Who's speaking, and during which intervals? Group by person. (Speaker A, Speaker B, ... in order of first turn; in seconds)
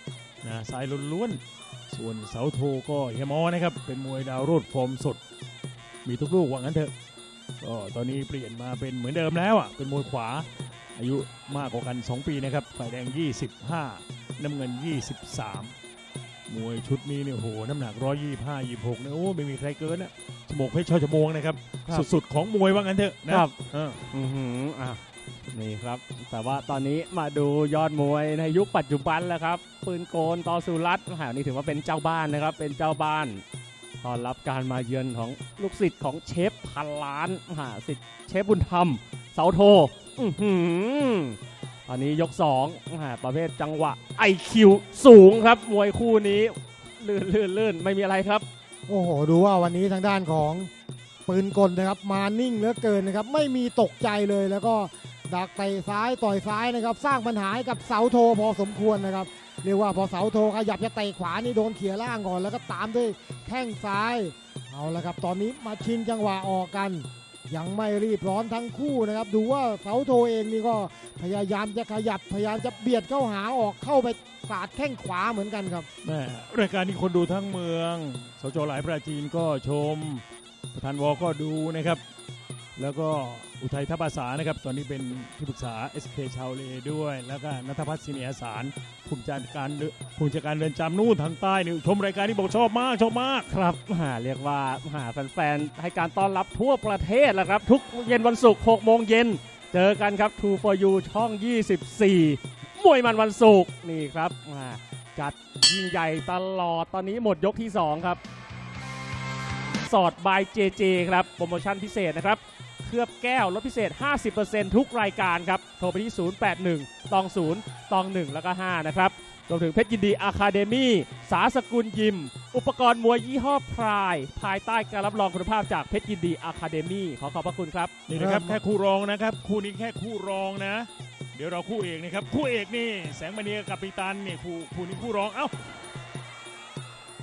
Speaker A: 0.4-5.2, 6.0-6.9, 7.6-15.7, 16.5-24.0, 76.0-82.0, 82.8-93.5, 128.1-135.5
Speaker B: 23.3-23.6, 24.1-33.4, 34.0-48.5, 93.5-108.2, 109.8-127.9
Speaker C: 48.9-50.7, 51.2-75.9, 128.2-128.6